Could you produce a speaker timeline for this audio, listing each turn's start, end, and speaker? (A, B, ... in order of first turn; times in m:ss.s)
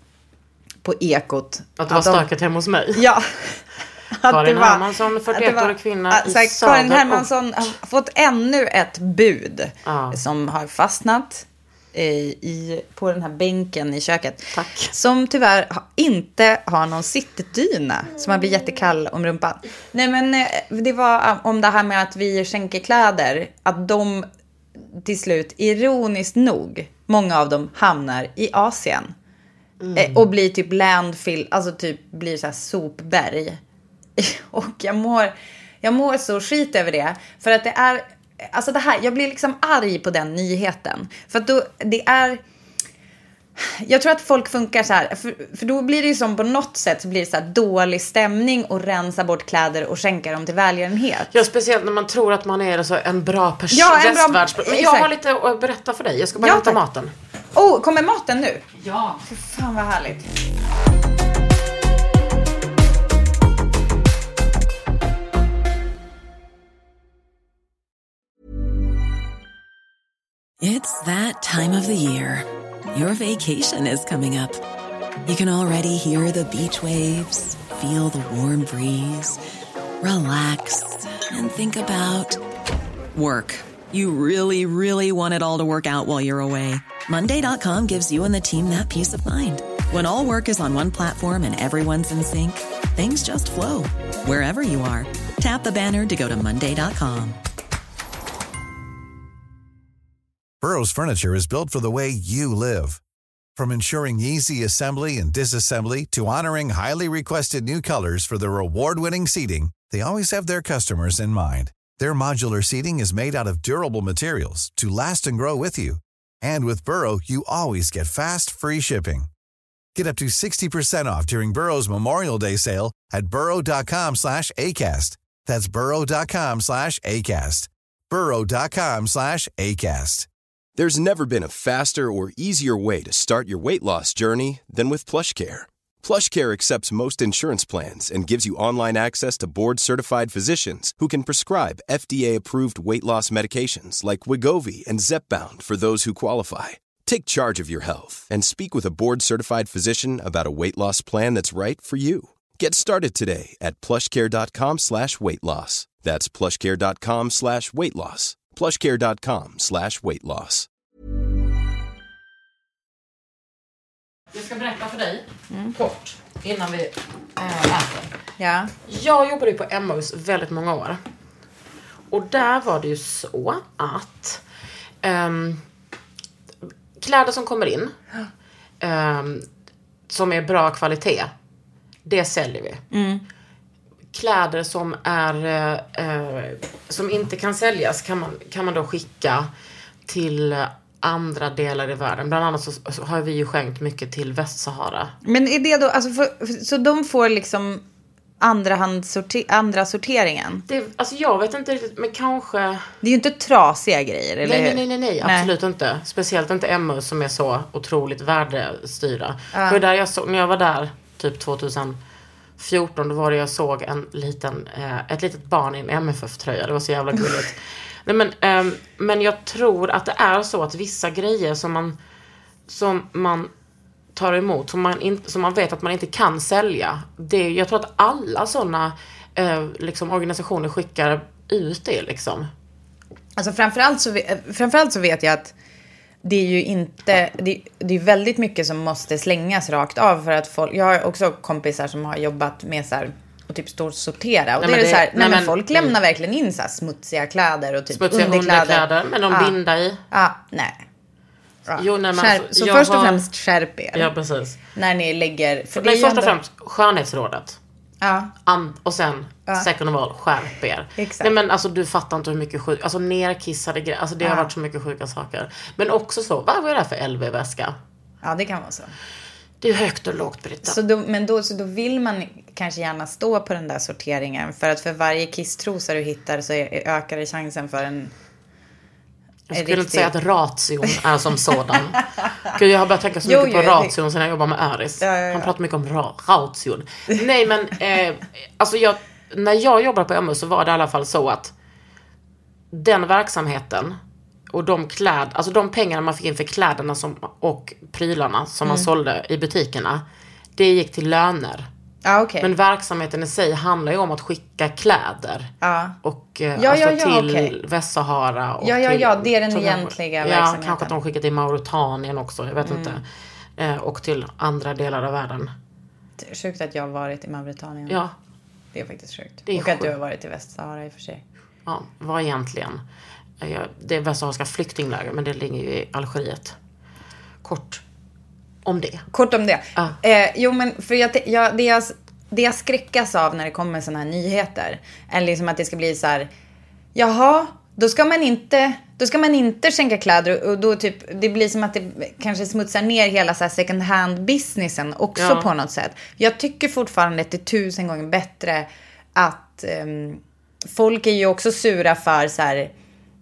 0:00.8-0:02.3 A
0:01.8-0:03.0 B
0:02.9-0:24.3 A
0:04.3-0:07.3 B
0:09.8-0:10.2 B
0:14.5-0:14.9 B
0:25.0-0:29.1 A
0:29.8-0:30.2 B
0:29.9-0:33.6 A
0:34.2-0:42.4 A
0:43.6-0:51.3 A
0:51.3-0:57.1 B
0:53.7-0:55.1 A
0:56.4-0:56.8 A
0:57.6-1:00.3 A
1:10.6-1:14.6 C
1:15.3-1:19.4 C
1:20.0-1:22.4 C
1:23.1-1:37.4 C
1:40.6-1:43.0 D
1:43.6-1:59.3 D
1:59.9-2:10.3 D
2:10.8-2:40.7 E
2:44.3-2:48.1 B
2:48.4-2:48.7 A
2:48.9-2:51.0 B
2:52.1-2:54.4 B
2:55.0-2:55.6 B
2:57.0-2:57.9 B
2:58.8-2:59.4 B
3:00.1-3:01.3 B
3:02.0-3:02.8 B
3:02.9-3:03.2 A
3:04.1-3:09.5 B
3:10.1-3:15.1 B
3:15.2-3:17.8 A
3:18.4-3:20.6 A
3:20.7-3:22.9 B
3:23.0-3:25.5 A
3:24.4-3:32.0 B
3:29.5-3:29.8 A
3:32.6-3:42.0 B
3:42.7-3:43.5 B
3:44.1-3:52.5 B
3:53.4-3:55.5 A
3:56.2-4:09.6 A
4:04.6-4:05.9 B
4:07.9-4:10.0 B
4:10.1-4:10.8 A
4:11.7-4:14.1 A
4:11.8-4:13.2 B
4:13.9-4:14.6 B
4:14.8-4:16.4 A
4:15.8-4:17.6 B
4:18.0-4:18.3 A
4:18.4-4:27.7 B
4:21.0-4:21.3 A
4:24.2-4:24.5 A
4:28.2-4:28.9 A
4:29.6-4:30.8 B
4:30.6-4:38.1 A
4:39.5-4:51.5 B
4:39.5-4:40.1 A
4:43.2-4:43.9 A
4:45.0-4:45.5 A
4:52.7-4:54.0 B
4:54.5-5:00.0 B
5:00.6-5:01.7 B
5:02.0-5:02.5 A
5:02.4-5:13.0 B
5:05.6-5:06.0 A
5:06.6-5:07.5 A
5:08.6-5:10.9 A
5:12.6-5:13.0 A
5:13.6-5:15.5 B
5:16.2-5:18.0 A
5:17.9-5:18.1 B
5:18.7-5:21.2 A
5:19.5-5:19.9 B
5:21.6-5:22.8 B
5:23.4-5:26.6 B
5:27.4-5:27.8 B
5:28.6-5:29.1 B
5:29.1-5:36.3 A
5:36.9-5:52.7 A
5:45.2-5:45.5 B